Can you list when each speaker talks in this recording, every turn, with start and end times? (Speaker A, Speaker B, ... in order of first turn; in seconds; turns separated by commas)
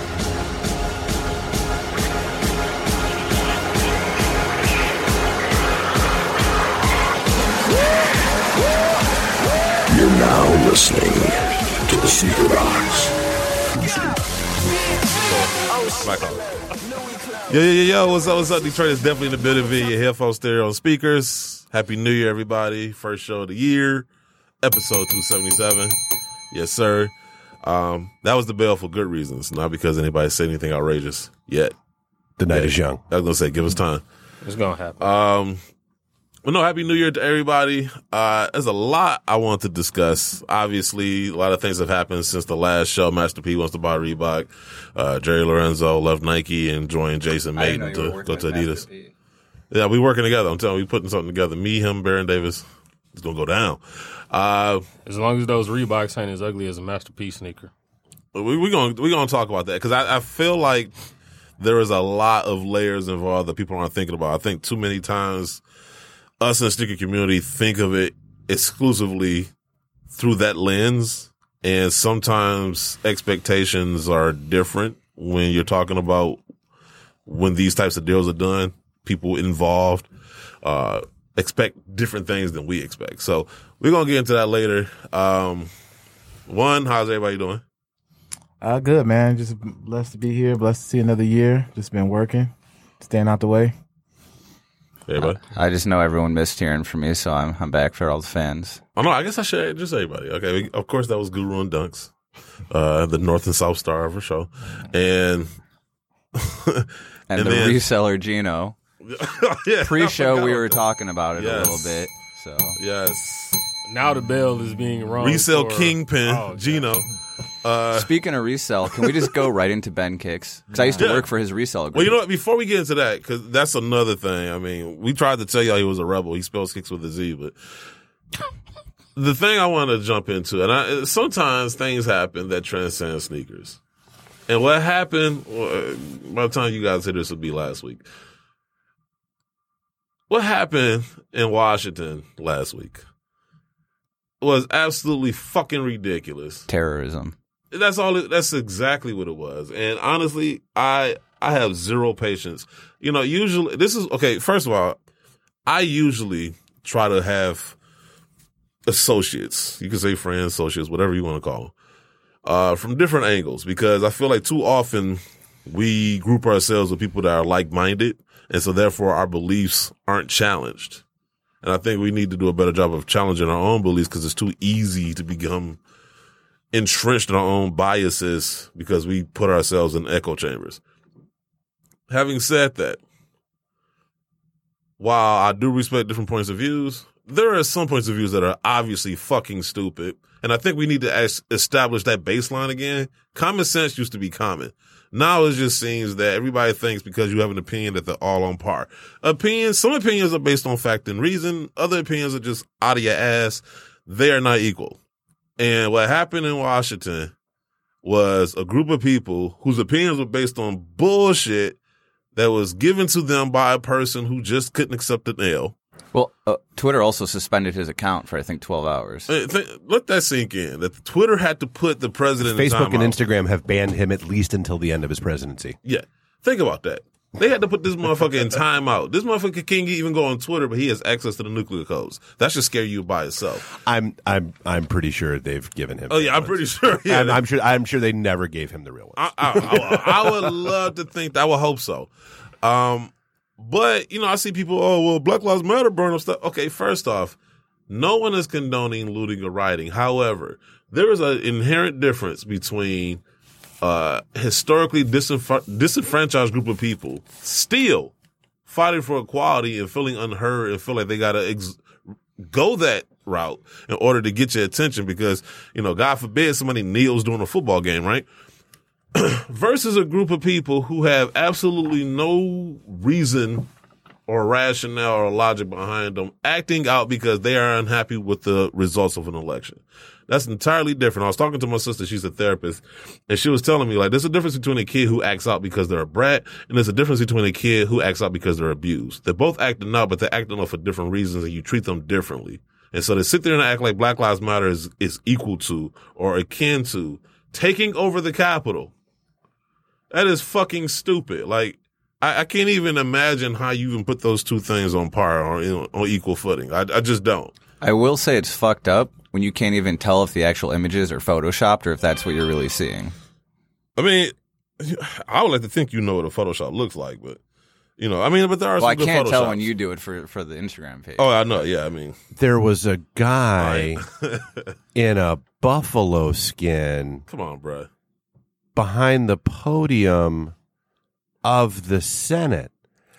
Speaker A: 9.9-13.1, Speaker A: 13.8-14.1, Speaker B: 15.2-16.4, Speaker B: 17.5-24.1, Speaker B: 24.6-26.0, Speaker B: 26.5-31.7, Speaker C: 32.4-33.0, Speaker B: 32.5-34.0, Speaker D: 34.5-35.0, Speaker B: 35.0-35.6, Speaker B: 36.5-48.8, Speaker E: 47.6-49.1, Speaker B: 49.7-53.8, Speaker B: 54.3-54.9, Speaker D: 55.1-57.7, Speaker B: 58.4-60.9, Speaker B: 61.6-65.6, Speaker B: 66.4-69.5, Speaker B: 70.1-76.4, Speaker B: 77.3-80.1, Speaker B: 80.6-85.7, Speaker B: 86.5-87.6, Speaker F: 88.6-93.7, Speaker B: 95.1-95.4, Speaker E: 95.2-98.8, Speaker B: 99.0-102.1, Speaker B: 102.7-105.5, Speaker B: 106.3-107.8, Speaker E: 107.3-108.8, Speaker B: 109.0-110.8, Speaker E: 109.8-112.8, Speaker B: 111.4-112.0, Speaker B: 112.8-113.6, Speaker D: 113.9-117.0, Speaker B: 115.2-117.1, Speaker B: 117.6-118.1, Speaker E: 117.9-122.2, Speaker B: 119.0-119.3, Speaker B: 121.0-121.3, Speaker B: 121.9-127.5, Speaker B: 129.2-133.8, Speaker B: 134.5-138.1, Speaker B: 140.3-143.0, Speaker B: 144.4-146.7, Speaker E: 146.7-147.3, Speaker B: 147.7-155.0, Speaker B: 155.7-157.8, Speaker B: 158.9-161.7, Speaker B: 162.4-171.0, Speaker B: 171.6-175.8, Speaker B: 176.7-180.8, Speaker B: 182.1-183.0, Speaker B: 185.0-205.0, Speaker B: 205.6-207.3, Speaker B: 208.0-211.8, Speaker B: 212.4-215.7, Speaker E: 216.1-219.3, Speaker B: 219.3-223.2, Speaker C: 222.4-225.8, Speaker B: 225.8-233.7, Speaker C: 233.8-240.5, Speaker B: 236.1-237.4, Speaker B: 239.2-242.1, Speaker B: 242.6-247.4, Speaker B: 247.9-253.2, Speaker B: 253.8-258.1, Speaker B: 258.7-261.8, Speaker B: 262.4-268.3, Speaker B: 269.1-273.7, Speaker B: 274.3-298.9, Speaker B: 300.1-307.5, Speaker E: 307.8-313.1, Speaker B: 314.0-317.4, Speaker B: 318.0-319.7, Speaker E: 318.8-321.3, Speaker B: 321.2-322.2, Speaker C: 322.4-324.0, Speaker B: 323.6-324.5, Speaker C: 324.9-327.2, Speaker B: 327.3-327.9, Speaker C: 328.8-330.5, Speaker C: 331.4-332.7